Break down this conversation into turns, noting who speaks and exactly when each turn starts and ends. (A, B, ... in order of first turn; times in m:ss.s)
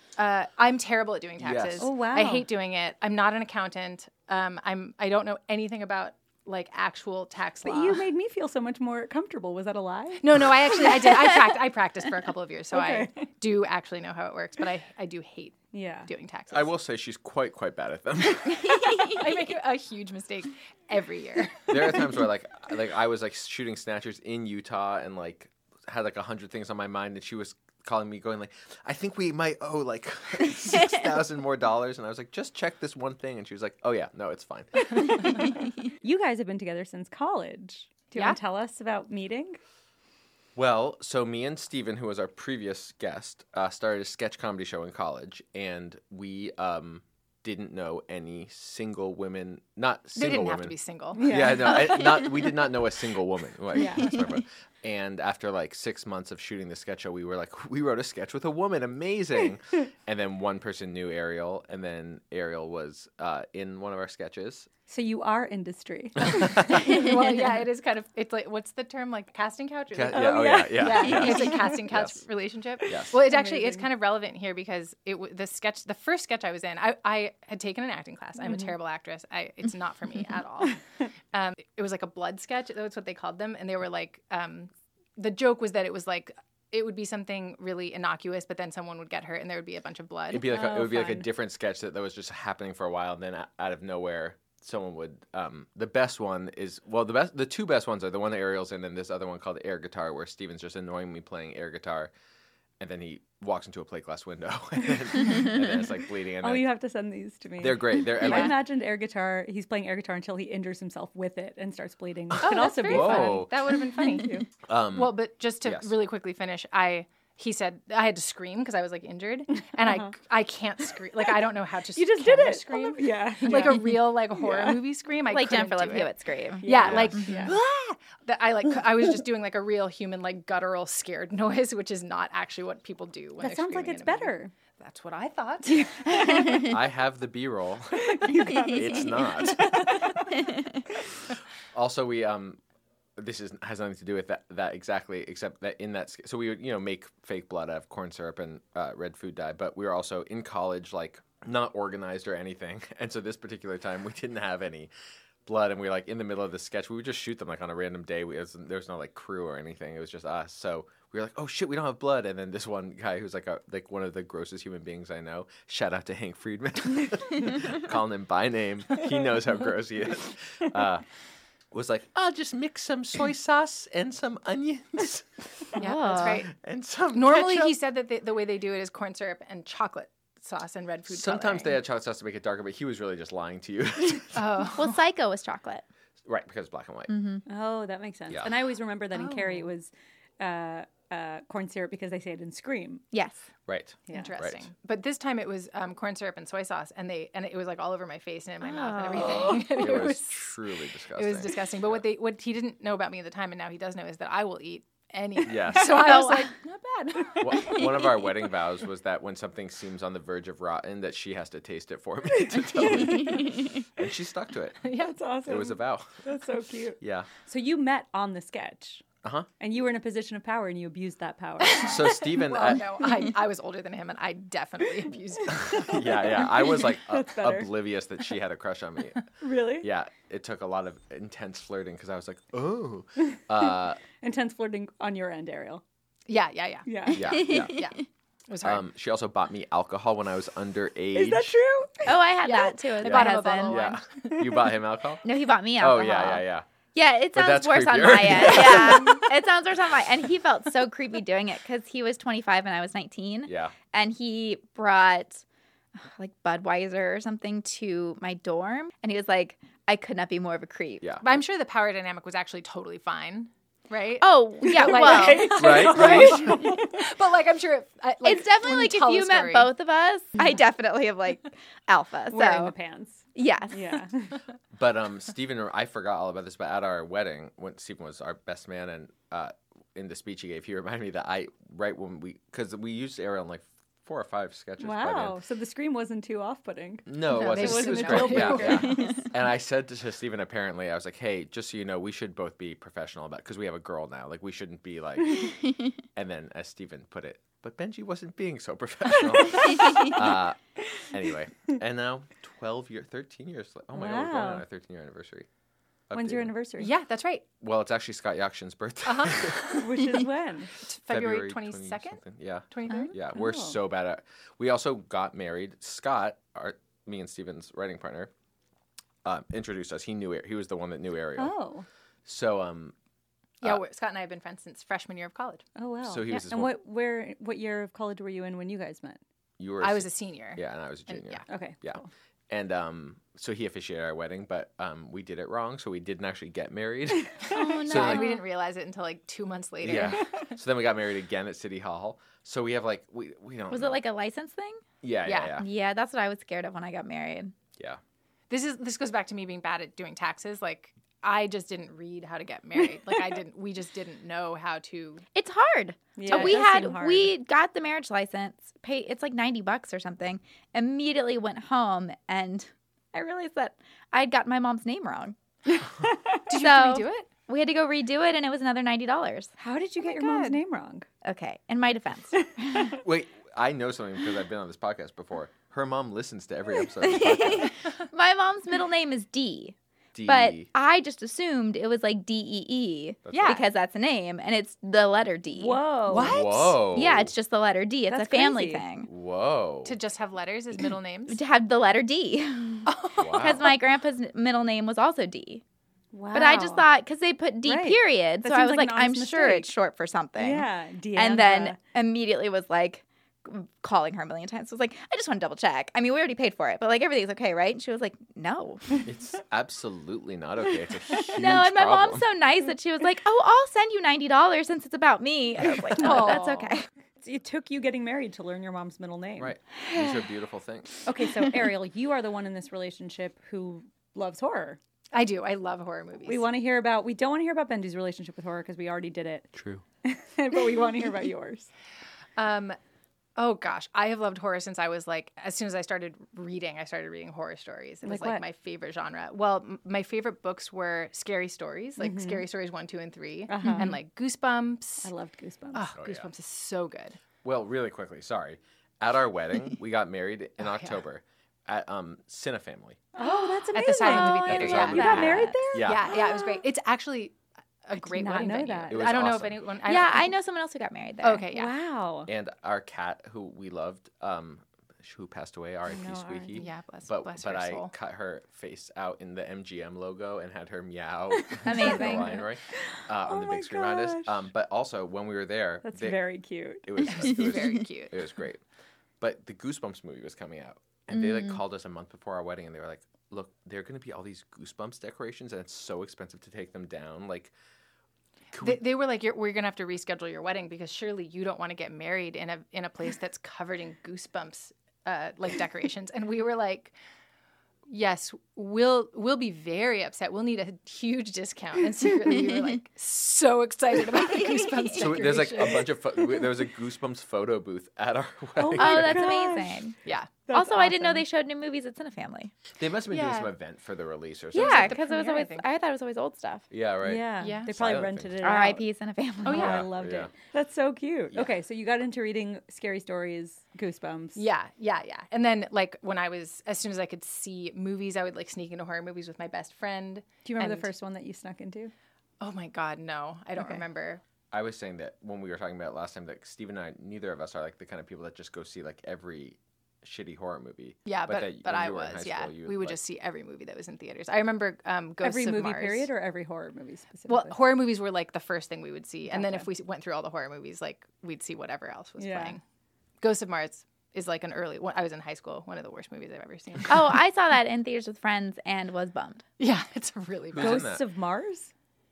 0:00.2-0:08.0 A
0:01.4-0:01.9 B
0:01.8-0:02.5 C
0:07.6-0:11.1 C
0:10.2-0:16.7 A
0:12.7-0:13.3 C
0:15.7-0:16.1 C
0:16.5-0:19.2 B
0:18.7-0:19.2 D
0:19.0-0:22.1 A
0:21.7-0:35.2 B
0:36.0-0:39.6 C
0:40.6-1:04.7 B
0:50.1-0:51.3 A
0:51.1-0:52.2 C
0:53.7-0:54.2 C
1:04.9-1:06.8 C
1:06.2-1:07.0 B
1:06.4-1:20.8 A
1:09.9-1:12.2 B
1:10.1-1:11.8 C
1:12.8-1:13.2 B
1:13.1-1:13.9 C
1:18.4-1:18.7 C
1:21.3-1:30.4 A
1:30.3-1:42.1 B
1:30.4-1:31.3 C
1:42.8-1:46.7 B
1:46.4-1:54.4 C
1:47.6-1:48.6 B
1:48.2-1:48.5 A
1:52.3-1:53.5 B
1:52.4-2:06.1 A
1:54.7-1:55.9 B
1:59.6-2:00.1 C
2:01.9-2:04.8 C
2:05.2-2:07.2 D
2:06.6-2:07.6 C
2:06.6-2:15.9 A
2:06.8-2:07.2 B
2:13.4-2:14.5 C
2:15.7-2:16.7 C
2:16.2-2:16.7 D
2:16.6-2:20.0 B
2:18.0-2:20.4 C
2:21.7-2:22.6 B
2:23.2-2:34.9 B
2:35.4-2:51.0 B
2:51.7-2:55.4 B
2:55.8-2:56.5 A
2:55.8-2:56.5 D
2:56.5-2:57.7 B
2:57.1-3:01.8 A
3:01.1-3:04.7 B
3:04.3-3:04.9 A
3:04.7-3:05.8 D
3:06.2-3:07.2 B
3:07.1-3:07.4 D
3:07.5-3:13.0 C
3:09.1-3:09.7 A
3:13.1-3:13.4 D
3:13.7-3:14.7 B
3:14.1-3:14.3 C
3:14.1-3:20.4 A
3:18.6-3:19.9 D
3:19.1-3:21.6 B
3:21.2-3:27.9 A
3:25.4-3:26.2 B
3:25.8-3:26.5 D
3:27.4-3:34.8 B
3:32.6-3:33.5 C
3:34.8-3:35.1 A
3:35.0-3:39.0 C
3:35.4-3:36.2 B
3:37.0-3:37.3 B
3:39.6-3:42.0 C
3:41.8-3:42.9 B
3:41.8-3:46.1 A
3:45.5-3:49.2 B
3:46.3-3:47.7 C
3:49.4-3:49.9 C
3:49.8-3:54.0 B
3:54.2-3:55.8 C
3:56.3-3:58.8 A
3:56.8-3:57.4 C
3:57.1-3:57.8 B
3:57.4-3:57.9 D
3:58.6-4:01.5 B
4:01.1-4:02.1 C
4:02.0-4:03.9 D
4:02.4-4:04.5 A
4:03.0-4:05.2 B
4:05.2-4:15.4 D
4:05.8-4:06.6 B
4:07.3-4:09.2 B
4:13.4-4:13.7 B
4:16.0-4:21.0 D
4:21.0-4:21.4 B
4:21.2-4:29.7 A
4:24.2-4:26.0 D
4:24.6-4:27.1 C
4:25.5-4:26.6 B
4:28.2-4:32.7 D
4:32.3-4:34.4 C
4:33.3-4:34.0 D
4:34.7-4:45.4 B
4:44.8-4:49.2 C
4:47.1-4:55.5 B
4:47.3-4:49.2 A
4:48.8-4:49.2 D
4:56.1-5:05.5 B
5:03.9-5:04.6 C
5:06.1-5:06.5 B
5:06.1-5:06.9 C
5:06.8-5:07.4 A
5:07.6-5:09.8 B
5:09.0-5:10.0 A
5:09.8-5:10.7 C
5:10.8-5:13.2 A
5:11.1-5:18.3 B
5:13.3-5:13.8 C
5:19.2-5:21.5 B
5:21.4-5:21.9 C
5:22.2-5:22.9 B
5:23.6-5:25.6 A
5:25.8-5:29.2 C
5:26.0-5:26.7 B
5:29.6-5:38.2 B
5:29.8-5:31.4 A
5:31.5-5:32.1 C
5:37.4-5:40.4 A
5:37.5-5:38.4 D
5:39.8-5:44.0 B
5:43.7-5:44.8 D
5:45.0-5:45.6 B
5:45.2-5:45.6 A
5:45.5-5:47.5 D
5:48.5-5:55.2 A
5:55.3-6:05.4 D
5:56.2-5:57.3 C
5:56.3-5:56.6 A
6:05.7-6:06.4 C
6:06.5-6:07.3 A
6:06.5-6:09.5 D
6:09.6-6:11.1 C
6:10.0-6:10.6 A
6:11.2-6:13.0 D
6:12.9-6:17.7 B
6:17.0-6:25.8 D
6:20.1-6:20.7 B
6:23.2-6:23.6 B
6:23.3-6:23.6 A
6:25.5-6:26.3 C
6:26.1-6:26.8 A
6:26.1-6:27.3 B
6:26.9-6:29.1 D
6:28.1-6:28.8 C
6:29.1-6:29.9 B
6:29.8-6:31.4 A
6:31.3-6:35.6 D
6:32.8-6:33.6 A
6:33.2-6:33.7 B
6:36.1-6:36.9 C
6:36.3-6:49.0 D
6:37.6-6:39.7 C
6:40.4-6:41.8 C
6:49.0-6:52.3 B
6:51.3-6:56.9 D
6:55.9-6:56.7 A
6:57.2-6:59.5 C
6:59.4-7:01.0 B
6:59.8-7:00.2 D
7:01.0-7:04.8 C
7:05.1-7:06.4 A
7:06.2-7:09.5 C
7:09.5-7:09.8 B
7:10.0-7:11.7 C
7:12.4-7:12.8 A
7:13.4-7:25.1 A
7:18.0-7:18.4 C
7:22.0-7:22.4 C
7:23.5-7:24.0 C
7:23.6-7:23.9 D
7:25.0-7:25.9 C
7:25.7-7:27.2 A
7:26.0-7:26.3 B
7:27.4-7:33.0 B
7:30.6-7:31.0 A
7:33.2-7:36.1 C
7:33.2-7:40.3 A
7:34.0-7:36.4 D
7:34.4-7:36.1 B
7:38.0-7:39.2 C
7:38.9-7:39.6 B
7:39.8-7:41.4 D
7:41.2-7:41.7 A
7:41.5-7:42.3 C
7:42.3-7:56.2 B
7:45.9-7:46.7 C
7:46.6-7:47.9 A
7:51.5-7:54.4 C
7:51.6-7:52.4 D
7:55.8-7:56.9 C
7:56.8-7:58.6 B
7:57.1-7:58.1 A
7:59.2-8:07.5 B
8:01.1-8:01.6 D
8:08.5-8:08.8 B
8:08.6-8:16.9 A
8:17.9-8:26.0 A
8:24.3-8:24.9 D
8:24.9-8:29.3 B
8:28.6-8:29.9 C
8:28.8-8:30.0 D
8:30.0-8:30.3 A
8:30.4-8:31.2 C
8:30.5-8:32.5 D
8:32.8-8:35.0 B
8:33.1-8:33.5 A
8:34.5-8:35.7 A
8:34.5-8:36.6 D
8:36.7-8:38.3 B
8:37.0-8:38.8 C
8:37.4-8:37.7 A
8:38.4-8:39.8 D
8:39.4-8:39.8 A
8:39.4-8:44.4 C
8:39.5-8:40.3 B
8:44.4-8:50.9 A
8:50.4-8:51.9 C
8:52.4-8:54.2 A
8:53.6-8:53.8 C
8:54.5-9:03.0 B
9:01.0-9:06.1 A
9:05.2-9:07.6 C
9:07.3-9:12.6 A
9:09.3-9:09.7 C
9:12.2-9:12.6 C
9:13.2-9:17.2 A
9:16.9-9:19.4 D
9:19.6-9:20.9 A
9:20.5-9:21.0 B
9:20.6-9:21.7 C